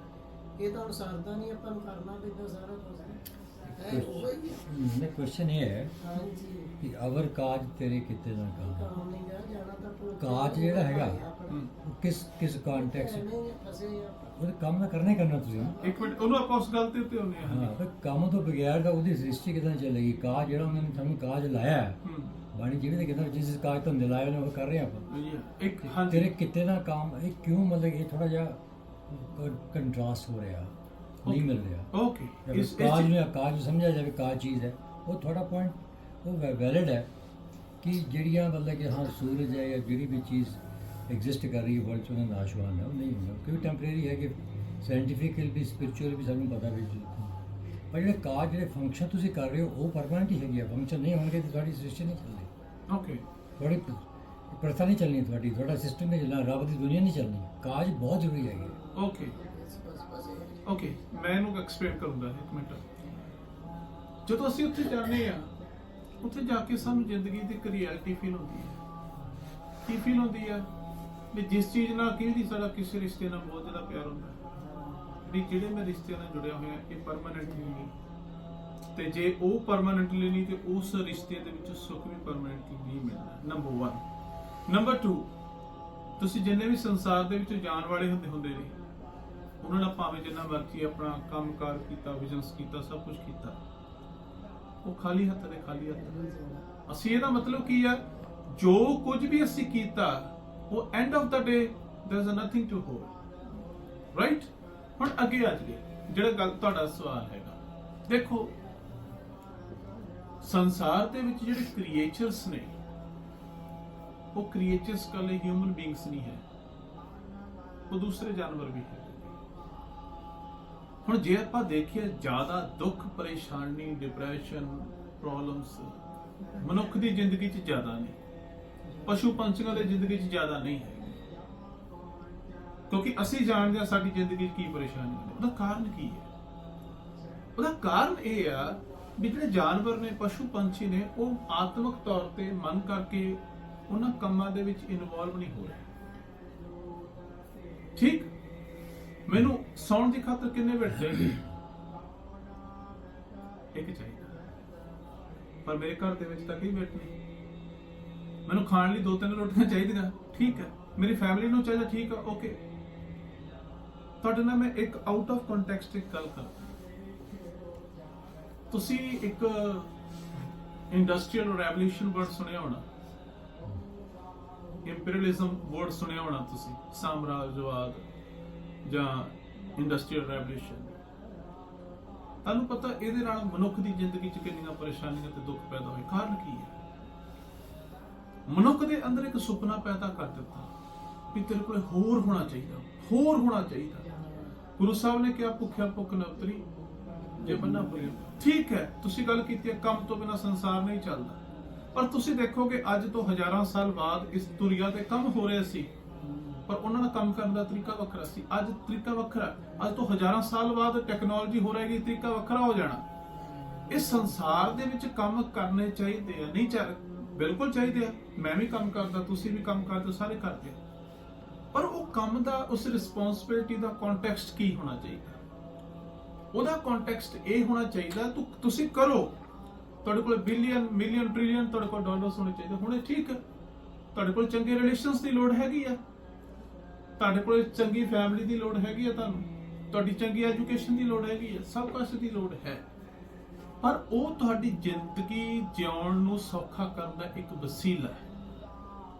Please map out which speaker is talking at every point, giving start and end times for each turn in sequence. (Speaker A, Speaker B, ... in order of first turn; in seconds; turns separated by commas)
Speaker A: 0.6-4.6, Speaker B: 3.6-6.0, Speaker A: 6.0-6.7, Speaker B: 6.8-8.9, Speaker A: 8.6-11.6, Speaker B: 10.2-11.2, Speaker B: 11.8-13.3, Speaker A: 12.7-14.4, Speaker B: 14.4-15.8, Speaker A: 15.2-16.2, Speaker C: 15.8-17.8, Speaker B: 17.4-22.0, Speaker C: 22.0-22.4, Speaker B: 22.5-25.1, Speaker C: 25.1-26.4, Speaker B: 25.8-30.7, Speaker B: 31.2-31.9, Speaker C: 31.2-33.1, Speaker B: 32.4-37.1, Speaker B: 37.8-47.3, Speaker B: 47.9-52.5, Speaker C: 52.9-53.2, Speaker B: 53.6-58.8, Speaker A: 58.6-60.9, Speaker C: 59.0-59.4, Speaker C: 60.6-62.9, Speaker C: 64.2-65.5, Speaker C: 66.2-68.8, Speaker C: 69.8-70.7, Speaker C: 71.3-74.4, Speaker C: 75.2-77.9, Speaker C: 79.0-84.0, Speaker C: 84.7-85.3, Speaker C: 86.2-88.8, Speaker C: 89.6-93.6, Speaker C: 94.8-96.2, Speaker A: 96.0-96.7, Speaker C: 96.9-103.1, Speaker C: 104.1-108.5, Speaker C: 110.4-112.8, Speaker C: 114.3-116.5, Speaker C: 117.9-119.2, Speaker C: 121.0-126.0, Speaker C: 126.6-128.2, Speaker A: 128.9-129.2, Speaker C: 129.1-131.2, Speaker C: 132.9-136.3, Speaker C: 137.6-145.9, Speaker C: 148.0-148.3, Speaker C: 149.3-151.4, Speaker C: 153.7-154.4, Speaker C: 155.7-157.1, Speaker C: 158.5-162.6, Speaker C: 164.2-166.7, Speaker C: 168.7-169.9, Speaker C: 170.9-172.8, Speaker C: 174.8-178.0, Speaker C: 178.8-180.9, Speaker C: 182.4-186.7, Speaker C: 188.5-190.7, Speaker C: 191.3-194.1, Speaker C: 194.8-196.7, Speaker C: 197.4-201.4, Speaker B: 197.6-197.8, Speaker C: 201.9-205.9, Speaker C: 206.7-213.0, Speaker C: 213.9-220.8, Speaker C: 221.7-225.4, Speaker C: 226.5-229.3, Speaker C: 230.0-233.4, Speaker C: 234.1-236.0, Speaker C: 237.2-242.8, Speaker C: 243.8-248.2